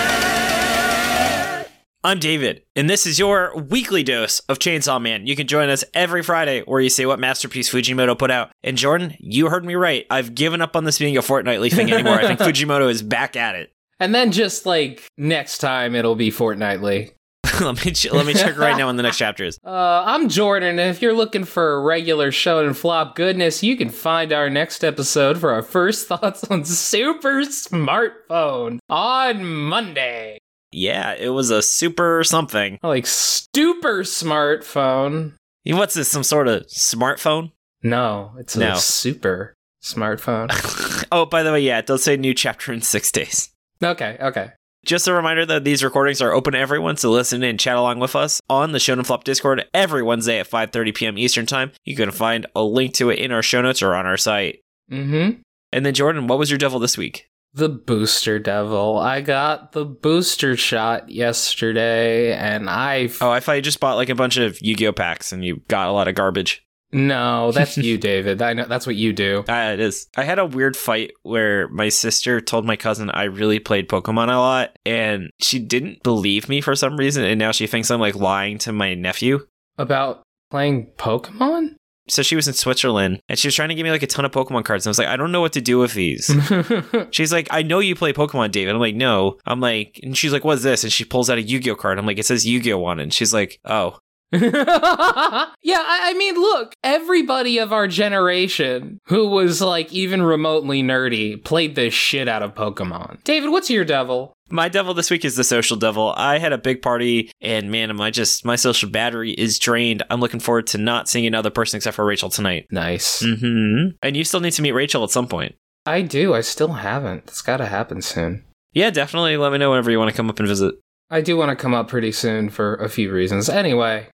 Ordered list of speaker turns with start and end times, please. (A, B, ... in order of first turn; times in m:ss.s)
0:02.0-0:13.7 A
0:11.7-0:12.5 B
0:14.0-0:17.1 B
0:17.6-0:19.6 A
0:18.1-0:18.8 B
0:19.6-0:30.4 B
0:30.7-0:32.8 A
0:32.8-0:35.3 B
0:35.6-0:37.5 A
0:37.8-0:40.5 B
0:38.5-0:38.9 A
0:40.5-0:43.5 A
0:43.8-0:44.5 B
0:44.8-0:54.6 A
0:54.9-0:55.4 B
0:55.7-0:57.2 A
0:57.5-1:03.2 B
1:03.2-1:06.6 A
1:06.9-1:09.5 B
1:09.5-1:19.4 A
1:19.8-1:21.7 B
1:22.1-1:26.4 A
1:26.3-1:27.1 B
1:27.1-1:34.0 A
1:34.3-1:44.3 B
1:44.5-1:52.6 A
1:52.7-1:53.3 B
1:53.2-1:55.5 A
1:55.9-1:58.4 B
1:58.7-2:00.8 A
2:01.1-2:04.1 B